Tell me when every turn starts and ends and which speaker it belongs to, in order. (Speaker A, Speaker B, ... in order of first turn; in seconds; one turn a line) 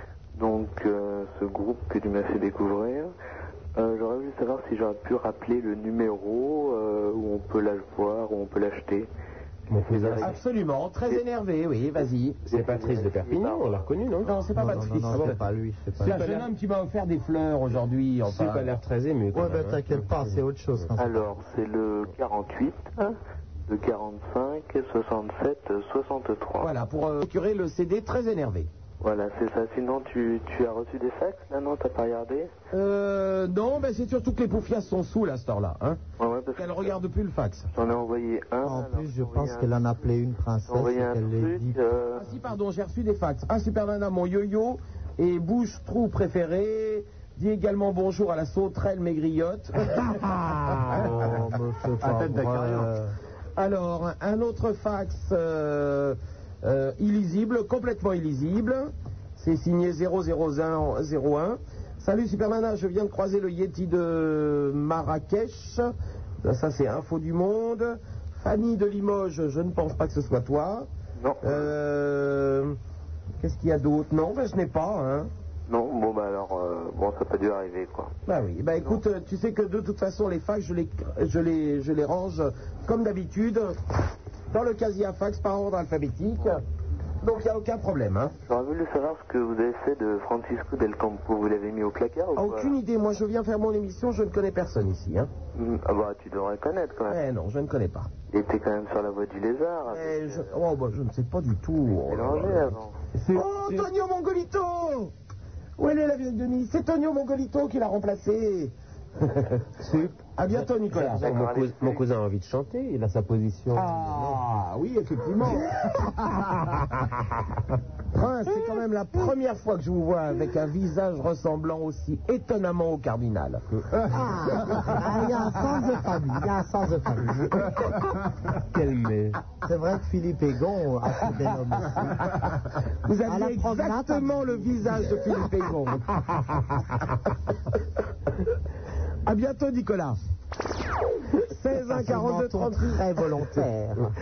Speaker A: 0.4-3.1
Speaker A: 3.8-9.1
Speaker B: 9.7-10.3
Speaker A: 9.7-10.4
Speaker C: 10.2-12.5
Speaker B: 12.5-14.3
Speaker A: 12.5-13.8
Speaker C: 14.2-15.4
Speaker D: 14.5-16.2
Speaker C: 16.0-18.7
Speaker B: 16.1-16.4
Speaker B: 18.3-20.1
Speaker D: 19.3-21.2
Speaker A: 21.0-23.2
Speaker A: 23.7-26.7
Speaker C: 26.6-28.7
Speaker A: 29.0-32.5
Speaker C: 32.7-36.0
Speaker A: 36.2-37.0
Speaker C: 36.6-37.7
Speaker A: 37.7-39.7
Speaker D: 38.6-41.8
Speaker A: 40.6-42.4
Speaker C: 42.2-50.2
Speaker D: 50.9-53.1
Speaker C: 53.6-65.9
Speaker C: 66.4-70.9
Speaker A: 71.2-71.7
Speaker C: 71.4-72.8
Speaker C: 73.4-75.3
Speaker A: 75.7-78.1
Speaker C: 78.3-83.8
Speaker C: 84.5-86.6
Speaker C: 87.2-88.3
Speaker A: 88.5-92.8
Speaker C: 92.4-95.3
Speaker A: 95.5-97.2
Speaker C: 97.1-98.1
Speaker A: 98.3-100.5
Speaker C: 99.9-102.7
Speaker A: 102.1-103.0
Speaker C: 103.2-105.1
Speaker B: 103.3-103.9
Speaker C: 105.8-111.3
Speaker B: 109.8-114.4
Speaker A: 111.2-112.0
Speaker C: 113.7-116.1
Speaker C: 118.1-123.7
Speaker D: 124.0-127.7
Speaker B: 128.6-129.4
Speaker D: 129.6-132.2
Speaker C: 131.8-132.4
Speaker C: 133.1-136.1
Speaker D: 133.3-135.2
Speaker C: 139.2-140.2
Speaker C: 141.4-143.6
Speaker D: 141.9-144.1